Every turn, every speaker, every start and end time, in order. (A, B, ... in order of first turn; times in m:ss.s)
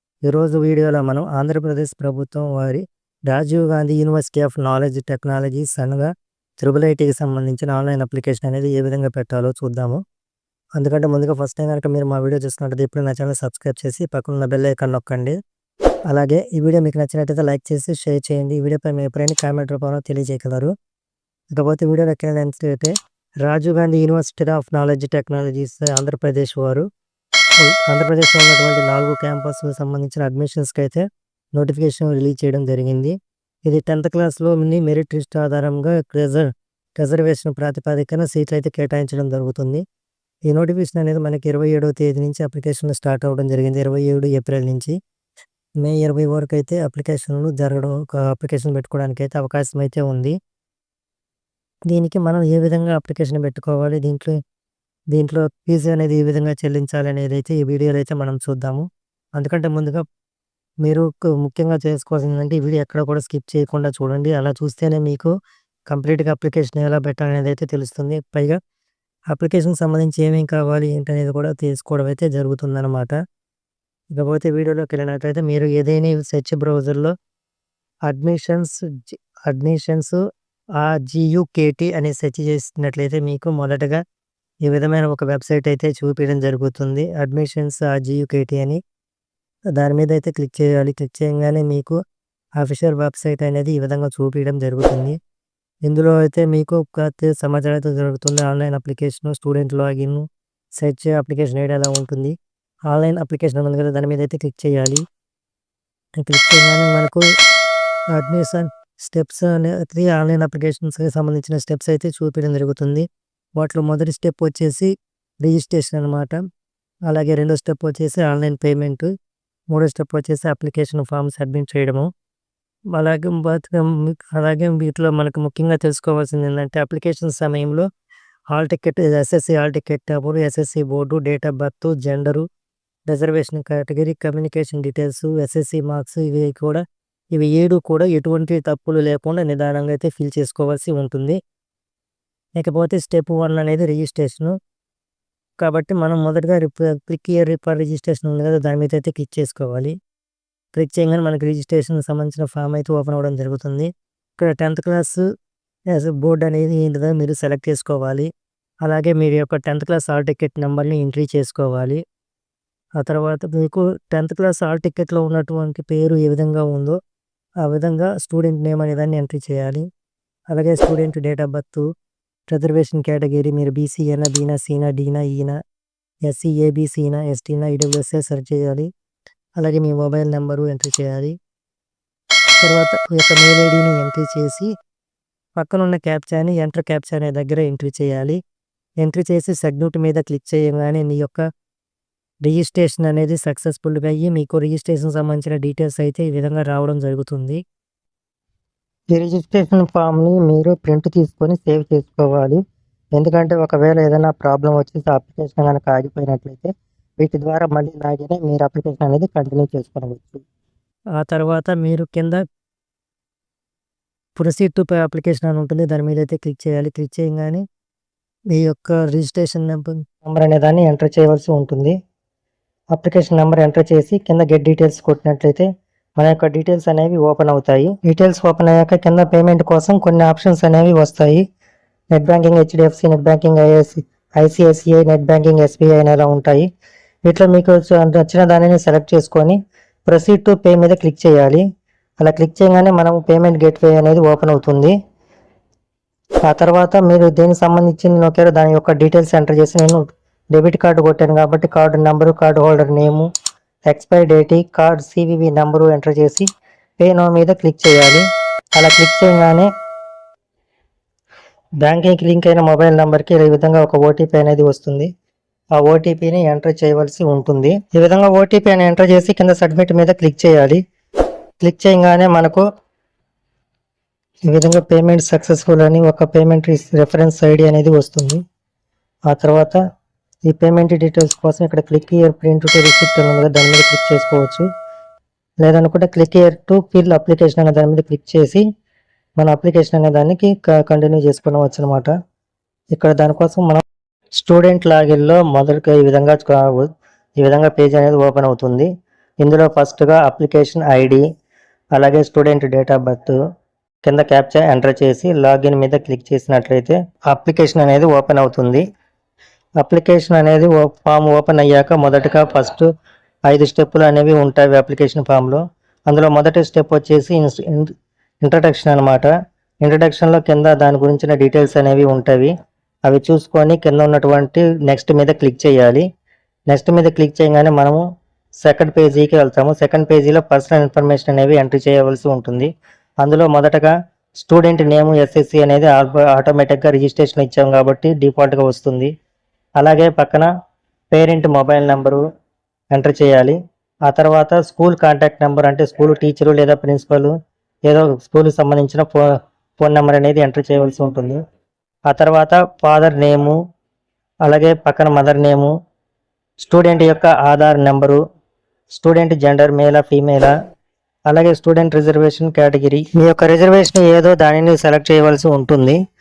0:00.3-0:10.0 A
0:10.8-0:15.4 A
0:16.1-0:20.7 A
0:21.5-0:26.9 A
0:27.6-0:39.8 A
0:40.5-0:45.0 A
0:45.8-0:50.4 A
0:51.9-0:54.4 A
0:55.1-0:58.8 A
0:59.4-1:00.0 A
1:00.8-1:05.3 A
1:05.9-1:08.6 A
1:09.3-1:13.1 A
1:14.2-1:17.1 A
1:18.1-1:20.2 A
1:20.8-1:24.0 A
1:24.6-1:28.8 A
1:29.8-1:32.0 A
1:32.6-1:35.2 A
1:35.8-1:40.2 A
1:40.8-1:42.3 A
1:42.9-1:45.0 A
1:46.2-1:47.2 A
1:48.2-1:54.9 A
1:55.4-1:56.4 A
1:57.1-1:59.1 A
1:59.7-2:02.0 A
2:03.0-2:07.9 A
2:08.5-2:12.4 A
2:13.1-2:21.4 A
2:22.6-2:24.6 A
2:25.6-2:30.0 A
2:30.8-2:35.2 A
2:35.9-2:38.3 A
2:38.8-2:42.0 A
2:43.0-2:47.0 A
2:47.6-2:49.9 A
2:50.5-2:51.8 A
2:52.5-2:55.6 A
2:56.3-2:58.9 A
2:59.6-3:01.3 A
3:02.6-3:04.7 A
3:05.6-3:08.4 A
3:09.0-3:11.4 A
3:12.4-3:17.6 A
3:19.1-3:22.6 A
3:23.2-3:30.4 A
3:31.2-3:32.4 A
3:34.4-3:37.6 A
3:38.5-3:42.0 A
3:42.9-3:45.7 A
3:46.2-3:51.4 A
3:52.1-3:56.7 A
3:57.2-3:59.6 A
4:00.1-4:01.6 A
4:02.2-4:04.9 A
4:06.5-4:13.2 A
4:13.9-4:16.4 A
4:17.0-4:19.7 A
4:21.8-4:25.1 A
4:25.8-4:30.8 A
4:31.6-4:32.6 A
4:34.5-4:38.4 A
4:39.3-4:39.8 A
4:40.5-4:44.6 A
4:45.6-4:48.6 A
4:49.4-4:52.1 A
4:52.9-4:53.8 A
4:54.4-4:58.9 A
4:59.4-5:01.2 A
5:02.0-5:03.4 A
5:04.0-5:08.8 A
5:09.8-5:12.9 A
5:13.5-5:17.9 A
5:18.4-5:19.3 A
5:19.8-5:22.5 A
5:23.1-5:26.0 A
5:26.7-5:28.0 A
5:28.6-5:32.7 A
5:33.2-5:39.1 A
5:39.8-5:40.5 A
5:41.1-5:42.2 A
5:42.9-5:43.6 A
5:44.1-5:47.3 A
5:47.9-5:49.2 A
5:49.8-5:51.4 A
5:52.1-5:53.6 A
5:54.4-5:55.7 A
5:56.6-5:58.2 A
5:58.9-6:00.5 A
6:01.3-6:06.0 A